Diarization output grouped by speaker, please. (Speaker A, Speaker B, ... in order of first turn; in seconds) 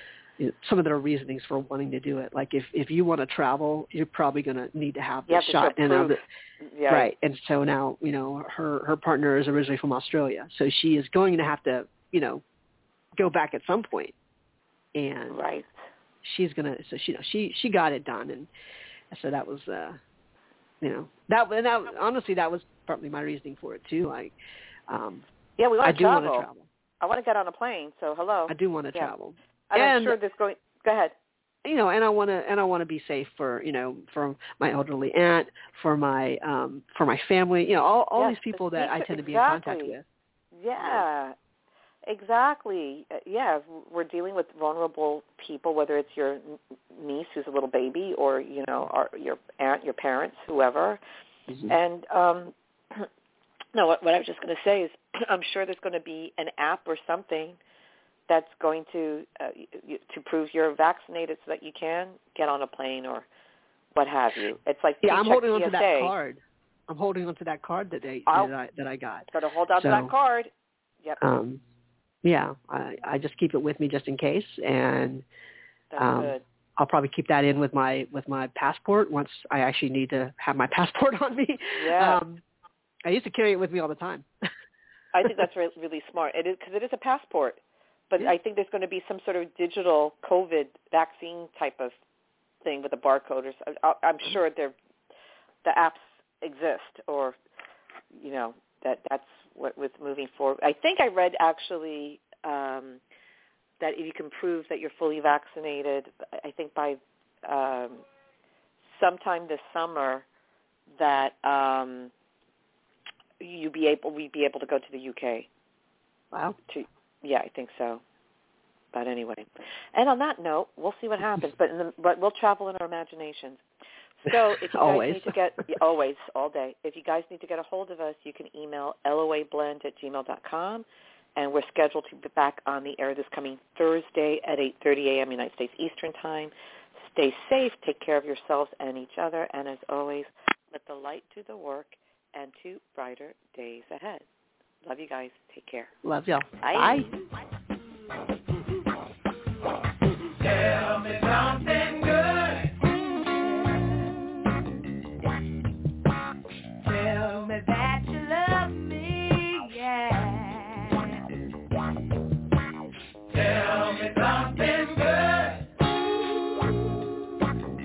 Speaker A: 0.4-6.2, 6.9-12.4, 13.2-14.1, 14.9-15.4, 16.2-18.5, 19.1-20.0, 20.8-24.3, 24.9-25.2, 25.8-26.7, 28.5-30.2, 31.6-40.0, 51.5-51.7, 65.0-70.1, 71.2-71.6, 72.2-75.2, 76.0-82.4, 83.0-84.3, 124.3-125.3, 146.0-147.1
Speaker B: 5.3-7.1, 15.3-15.7, 25.6-26.5, 27.0-29.1, 29.7-31.1, 38.2-40.0, 40.5-41.3, 42.1-51.0, 51.7-53.1, 53.7-57.6, 58.3-63.3, 63.9-66.1, 68.3-68.5, 69.3-70.5, 75.9-76.4, 81.8-82.2, 85.1-92.0, 92.6-94.8, 95.6-97.4, 98.1-103.0, 103.8-108.0, 108.8-110.3, 111.0-112.1, 113.4-115.5, 116.7-118.0, 118.9-123.6, 124.2-130.8, 131.4-144.2, 144.8-145.9, 146.6-147.0
Speaker C: 150.4-154.5, 156.8-161.3, 163.3-165.7